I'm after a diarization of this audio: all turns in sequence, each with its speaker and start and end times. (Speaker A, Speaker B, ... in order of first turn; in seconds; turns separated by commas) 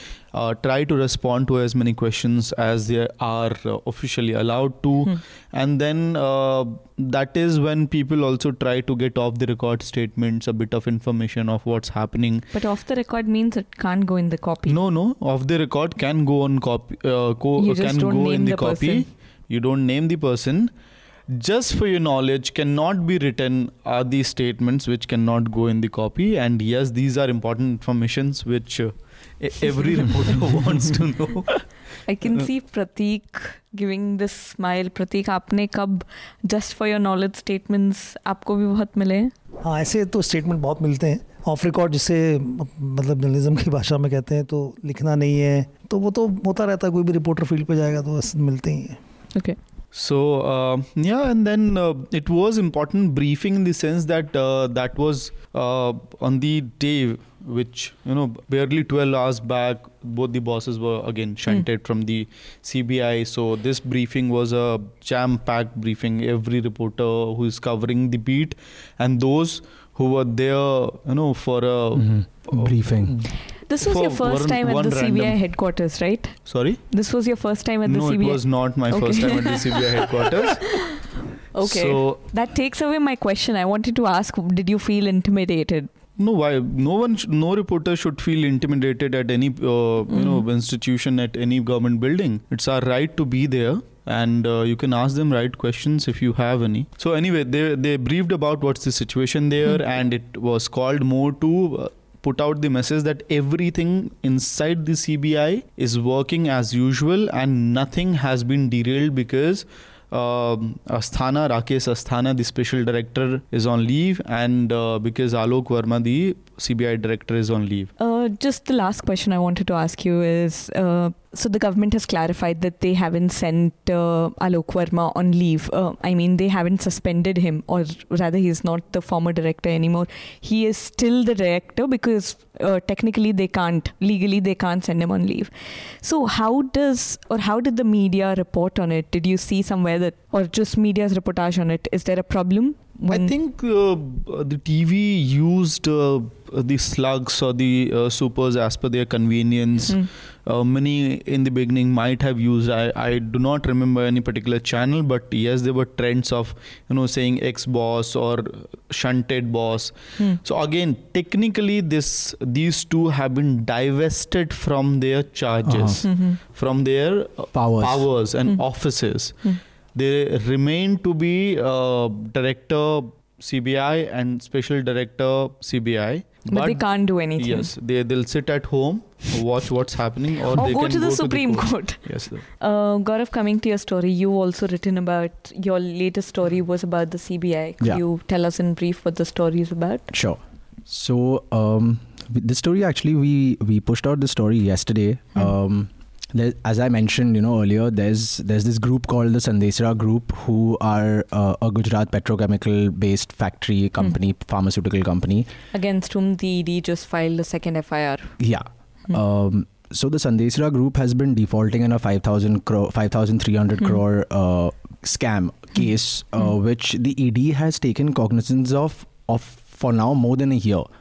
Speaker A: 0.3-12.5, Speaker B: 12.5-14.8, Speaker A: 14.7-20.7, Speaker B: 17.6-19.1, Speaker A: 21.3-31.7, Speaker B: 32.1-39.3, Speaker C: 39.6-49.0, Speaker A: 49.9-73.2, Speaker D: 72.0-73.2, Speaker B: 73.5-80.0, Speaker A: 73.8-75.4, Speaker A: 76.5-76.8, Speaker A: 77.9-80.8, Speaker B: 80.7-81.0, Speaker B: 81.5-85.9, Speaker A: 81.6-82.2, Speaker A: 86.2-117.9, Speaker B: 90.1-90.4, Speaker B: 118.0-143.3, Speaker A: 143.1-176.8, Speaker D: 165.7-166.0, Speaker B: 166.0-166.4, Speaker D: 167.5-168.1, Speaker B: 176.5-177.7, Speaker A: 177.4-182.4, Speaker B: 180.5-190.1, Speaker D: 190.1-205.5, Speaker B: 205.7-208.3, Speaker D: 208.4-220.9